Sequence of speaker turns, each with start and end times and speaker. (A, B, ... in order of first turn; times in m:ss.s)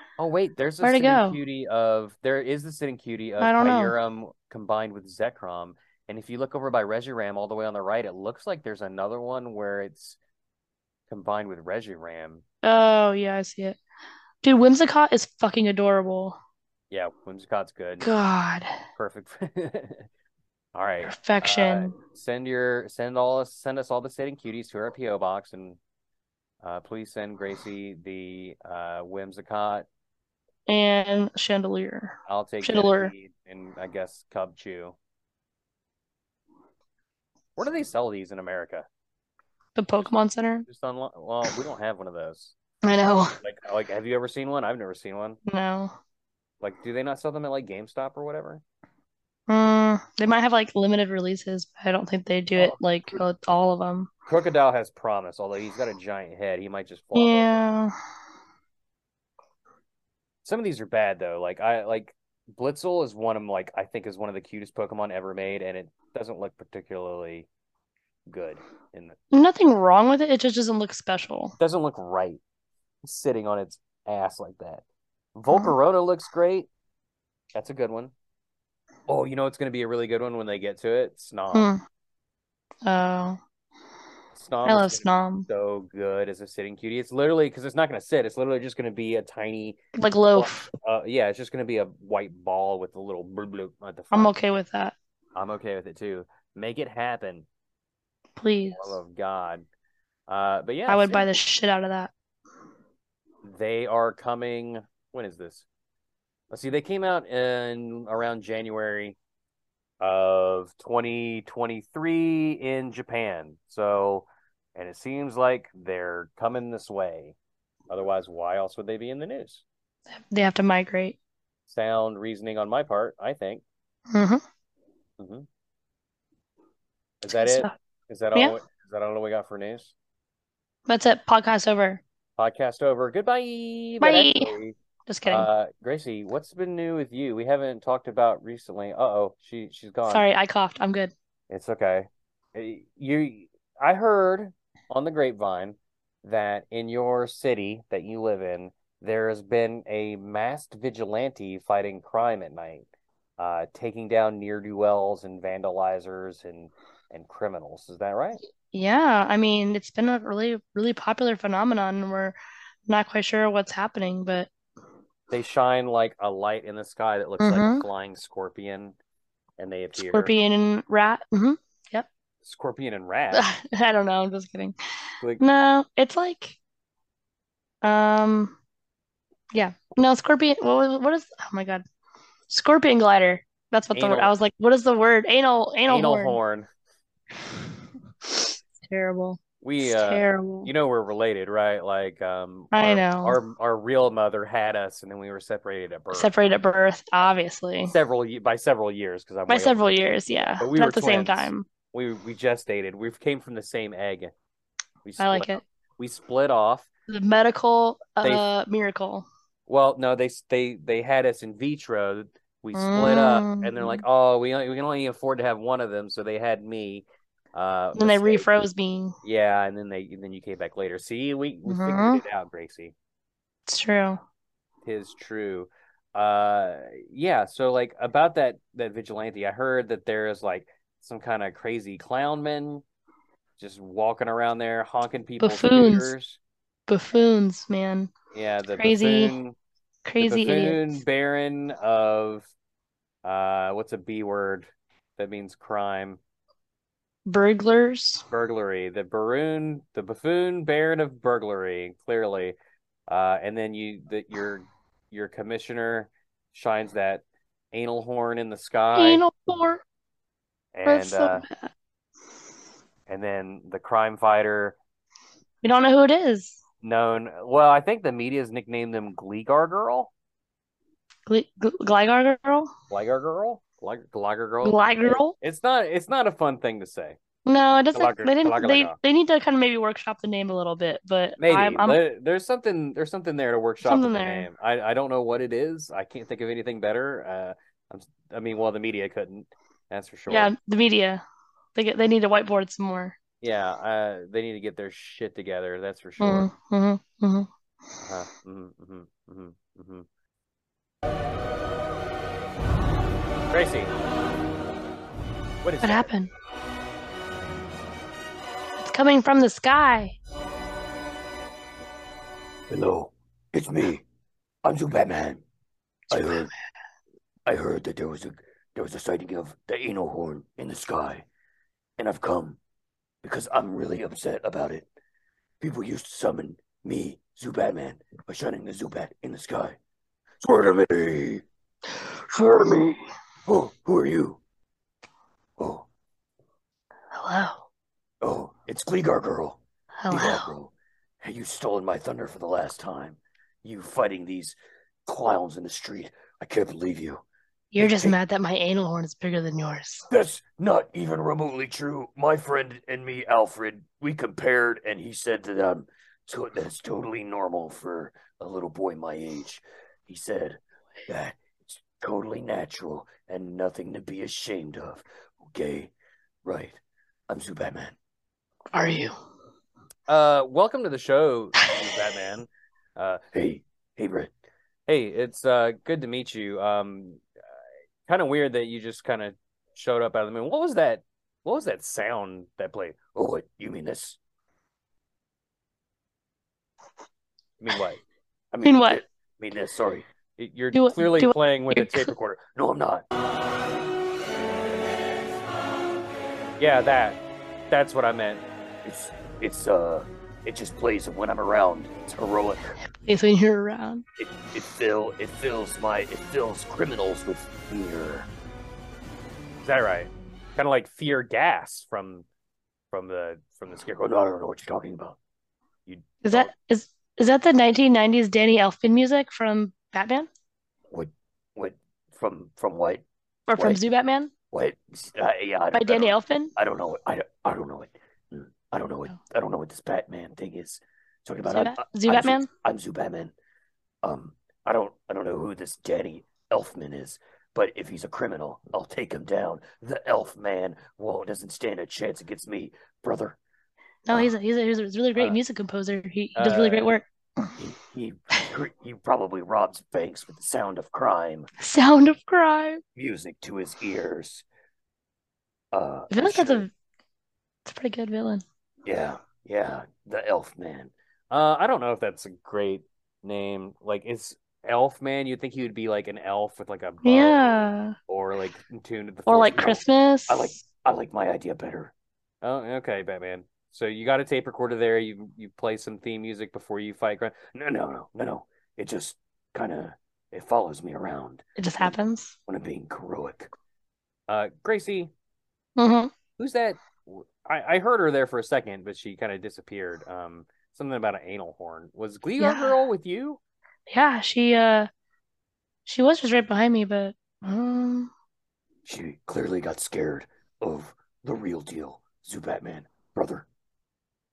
0:00.2-0:10.2 A
0:00.8-0:01.4 B
0:03.4-0:03.9 B
0:11.1-0:12.4 A
0:12.6-0:13.8 B
0:14.4-0:16.4 B
0:16.9-0:18.1 A
0:18.0-0:18.8 B
0:19.0-0:20.1 A
0:20.7-0:25.8 A
0:21.0-0:22.0 B
0:26.6-0:29.8 A
0:30.7-0:33.1 B
0:32.3-0:35.0 A
0:37.6-0:38.9 A
0:39.7-0:40.6 B
0:40.7-0:42.5 A
0:42.8-0:43.4 B
0:43.4-0:45.4 A
0:45.4-0:45.9 B
0:46.6-0:48.6 A
0:49.5-0:54.1 B
0:54.3-0:57.6 A
0:57.1-0:57.9 B
1:00.4-1:07.5 A
1:08.3-1:09.2 A
1:09.3-1:11.6 B
1:11.6-1:12.4 A
1:13.0-1:14.8 A
1:15.4-1:16.7 A
1:17.5-1:18.1 A
1:19.1-1:21.7 A
1:21.5-1:21.8 B
1:22.8-1:23.4 B
1:24.3-1:29.8 A
1:24.6-1:25.5 B
1:29.9-1:30.7 B
1:30.3-1:34.3 A
1:34.1-1:34.9 B
1:35.3-1:37.4 A
1:38.4-1:39.0 B
1:38.7-1:39.6 A
1:40.3-1:41.3 A
1:40.9-1:42.1 B
1:43.4-1:45.6 A
1:46.5-1:49.2 A
1:50.0-1:57.4 A
1:57.9-1:59.6 A
2:00.1-2:01.2 B
2:01.7-2:03.6 A
2:04.1-2:04.4 B
2:05.2-2:05.4 A
2:07.2-2:09.9 A
2:07.3-2:07.7 B
2:10.9-2:12.0 B
2:12.4-2:20.3 A
2:14.0-2:14.5 B
2:15.1-2:15.5 B
2:20.0-2:21.1 B
2:21.5-2:32.9 A
2:33.4-2:38.4 A
2:38.7-2:42.4 B
2:42.9-2:44.5 B
2:45.3-2:48.9 A
2:47.4-2:47.8 B
2:49.6-2:50.3 A
2:49.9-2:52.1 B
2:52.4-2:53.5 A
2:53.3-2:54.8 B
2:55.4-2:56.6 B
2:57.8-2:58.6 B
2:59.5-3:01.8 B
3:02.5-3:06.4 B
3:03.9-3:04.3 A
3:05.9-3:06.7 A
3:08.2-3:10.7 B
3:09.6-3:16.3 A
3:12.7-3:13.4 B
3:16.1-3:17.9 B
3:17.8-3:19.9 A
3:19.5-3:21.6 B
3:20.6-3:24.3 A
3:25.0-3:26.9 A
3:25.2-3:25.6 B
3:27.1-3:29.3 B
3:29.7-3:38.5 A
3:32.7-3:34.0 B
3:37.9-3:39.1 B
3:39.2-3:42.9 A
3:41.7-3:42.2 B
3:43.7-3:44.2 B
3:44.8-3:52.8 A
3:53.6-3:56.4 A
3:55.4-3:56.1 B
3:56.9-3:58.1 B
3:58.3-3:59.6 A
3:58.7-3:59.4 B
4:00.0-4:01.0 B
4:00.2-4:02.5 A
4:03.2-4:06.2 A
4:07.2-4:08.2 B
4:08.3-4:12.6 A
4:13.1-4:19.2 A
4:18.9-4:19.8 B
4:20.7-4:21.4 A
4:20.8-4:21.7 B
4:23.1-4:24.8 A
4:25.6-4:26.6 B
4:26.8-4:30.1 A
4:31.3-4:32.7 B
4:32.9-4:37.2 A
4:34.6-4:35.3 B
4:37.4-4:42.0 B
4:37.9-4:39.0 A
4:41.4-4:50.5 A
4:43.8-4:44.5 B
4:50.3-4:51.2 B
4:51.7-4:53.2 B
4:53.4-4:56.5 A
4:56.2-4:57.5 B
4:58.0-5:00.0 A
5:03.5-5:03.9 A
5:05.6-5:06.1 A
5:05.8-5:06.3 B
5:08.8-5:10.2 B
5:12.7-5:14.0 C
5:14.6-5:15.4 C
5:16.1-5:16.5 C
5:16.1-5:16.5 B
5:17.4-5:21.2 C
5:22.0-5:22.6 C
5:23.2-5:24.9 C
5:25.6-5:29.8 C
5:30.4-5:31.4 C
5:32.1-5:34.4 C
5:35.6-5:35.9 C
5:37.1-5:37.6 B
5:38.2-5:47.2 C
5:40.0-5:40.5 B
5:47.7-5:50.1 B
5:47.8-5:48.2 C
5:50.1-6:05.9 C
6:06.4-6:08.0 C
6:08.7-6:09.1 B
6:10.1-6:13.2 A
6:13.3-6:14.3 C
6:14.9-6:17.2 A
6:18.1-6:23.0 A
6:23.1-6:24.2 C
6:27.6-6:28.0 A
6:28.5-6:30.0 C
6:28.6-6:29.0 B
6:30.4-6:32.4 A
6:30.7-6:32.1 B
6:32.3-6:33.0 C
6:36.6-6:38.4 A
6:38.8-6:42.8 C
6:42.8-6:44.0 B
6:44.2-6:48.3 C
6:49.6-6:52.2 A
6:52.9-6:54.0 A
6:53.9-6:55.2 C
6:55.9-6:56.5 A
6:56.2-7:00.3 B
7:00.9-7:03.8 C
7:03.5-7:04.3 B
7:04.5-7:13.3 C
7:05.7-7:06.5 B
7:11.4-7:12.5 B
7:14.0-7:23.4 C
7:24.1-7:27.5 B
7:26.4-7:27.0 A
7:27.6-7:31.5 C
7:31.6-7:32.8 B
7:32.9-7:34.4 C
7:35.7-7:36.6 C
7:36.1-7:36.7 B
7:37.6-7:38.4 B
7:38.8-7:40.9 C
7:41.3-7:49.8 A
7:47.0-7:47.9 B
7:49.3-7:50.6 B
7:50.3-7:51.9 C
7:52.4-7:57.5 A
7:57.5-8:02.0 C
8:01.6-8:02.3 B
8:02.5-8:03.5 C
8:04.3-8:05.1 A
8:05.8-8:06.1 B
8:06.4-8:13.4 A
8:12.4-8:12.8 B
8:13.9-8:14.9 B
8:15.8-8:18.1 B
8:18.8-8:23.5 C